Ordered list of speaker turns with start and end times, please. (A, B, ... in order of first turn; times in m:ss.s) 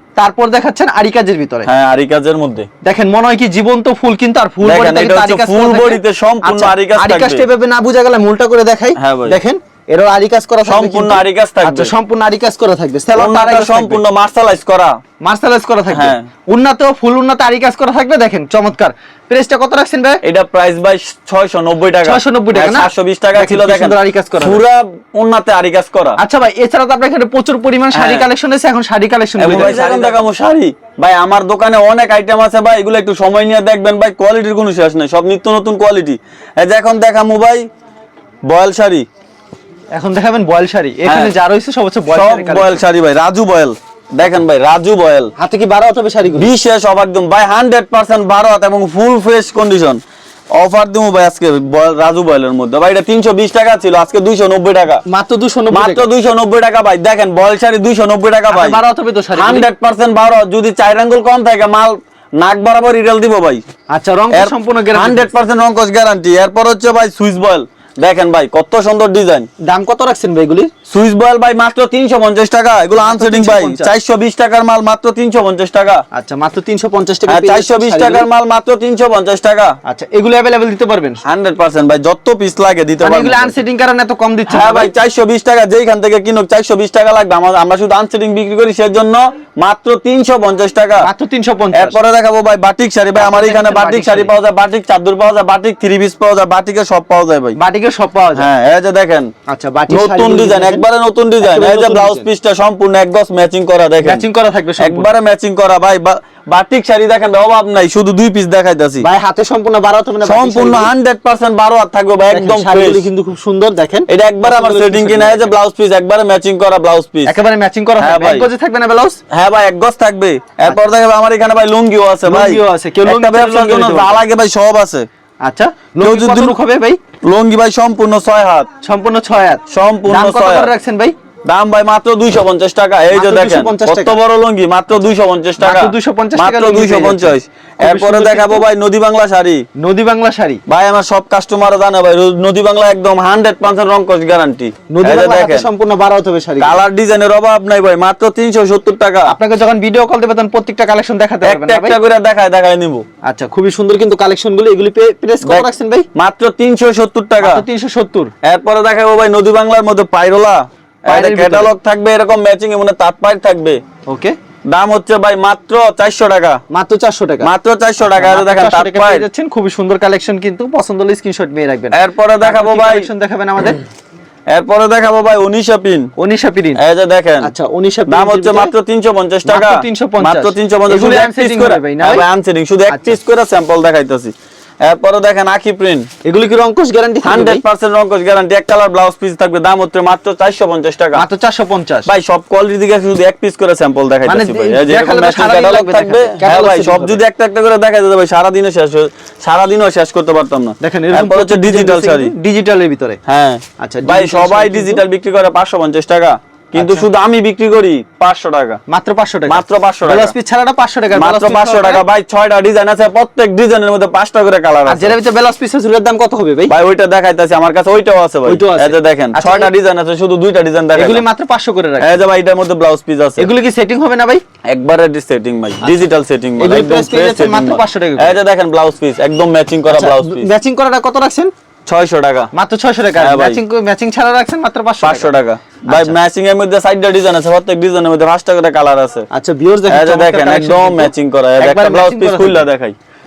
0:00.2-0:01.7 A
0:01.6-0:02.7 B
0:02.8-0:14.0 A
0:04.6-0:07.4 B
0:09.0-0:09.4 B
0:10.6-0:11.9 B
0:13.1-0:15.0 B
0:15.2-0:20.2 A
0:15.9-0:16.3 B
0:20.2-0:26.2 B
0:22.0-0:24.6 A
0:26.2-0:30.2 A
0:27.9-0:28.2 B
0:29.4-0:37.6 B
0:38.5-0:39.0 B
0:39.9-0:42.8 A
0:41.1-0:41.3 B
0:42.1-0:45.3 B
0:45.4-0:46.5 A
0:46.4-0:50.0 B
0:50.6-0:55.0 B
0:55.1-0:56.1 A
0:55.7-0:58.8 B
0:58.5-0:59.7 A
0:59.3-1:03.6 B
1:03.9-1:05.3 A
1:04.3-1:09.5 B
1:09.6-1:10.7 A
1:10.9-1:16.0 B
1:13.0-1:13.9 A
1:16.1-1:18.3 A
1:17.3-1:19.8 B
1:19.8-1:21.2 A
1:21.2-1:23.5 B
1:23.0-1:24.9 A
1:24.5-1:31.1 B
1:31.0-1:32.0 A
1:31.7-1:37.6 B
1:33.1-1:34.3 A
1:37.6-1:38.5 A
1:38.3-1:39.3 B
1:39.5-1:40.8 A
1:39.9-1:44.2 B
1:41.4-1:42.3 A
1:44.0-1:45.1 A
1:44.8-1:49.1 B
1:49.0-1:50.9 A
1:50.2-1:53.0 B
1:52.3-1:55.5 A
1:54.1-1:57.3 B
1:57.3-1:59.2 A
1:58.0-1:58.4 B
1:59.3-2:05.1 B
2:02.2-2:04.2 A
2:05.4-2:07.0 A
2:06.0-2:06.6 B
2:07.2-2:08.7 B
2:08.8-2:11.1 A
2:09.7-2:10.7 B
2:11.5-2:19.6 B
2:13.1-2:14.2 A
2:15.6-2:18.6 A
2:19.8-2:20.6 A
2:20.7-2:25.7 B
2:24.9-2:26.8 A
2:26.6-2:29.3 B
2:29.3-2:32.0 A
2:31.4-2:33.0 B
2:33.2-2:36.1 A
2:35.4-2:37.6 B
2:37.4-2:38.3 A
2:38.4-2:43.8 B
2:41.1-2:41.7 A
2:44.1-2:44.3 A
2:44.7-2:46.6 B
2:46.7-2:53.8 A
2:47.4-2:49.2 B
2:51.9-2:53.1 B
2:54.5-2:56.1 B
2:56.2-2:56.8 A
2:56.8-2:57.5 B
2:57.4-2:58.7 A
2:58.1-3:04.3 B
2:59.4-3:02.2 A
3:02.9-3:03.2 A
3:04.8-3:06.1 B
3:06.2-3:07.6 A
3:07.2-3:11.2 B
3:11.1-3:12.1 A
3:12.0-3:22.3 B
3:14.2-3:17.2 A
3:20.8-3:23.2 A
3:23.2-3:28.8 B
3:23.8-3:25.0 A
3:26.8-3:27.0 A
3:28.9-3:32.0 A
3:29.5-3:30.3 B
3:31.1-3:35.1 B
3:34.9-3:36.7 A
3:36.7-3:41.2 B
3:38.4-3:39.7 A
3:41.0-3:42.2 A
3:42.0-3:43.5 B
3:43.4-3:44.4 A
3:44.7-3:50.5 B
3:46.6-3:48.4 A
3:49.9-3:51.5 A
3:51.9-3:52.5 B
3:52.5-3:55.3 A
3:53.2-3:53.6 B
3:55.0-3:59.2 B
3:55.9-3:56.2 A
3:59.3-4:02.7 A
3:59.9-4:03.0 B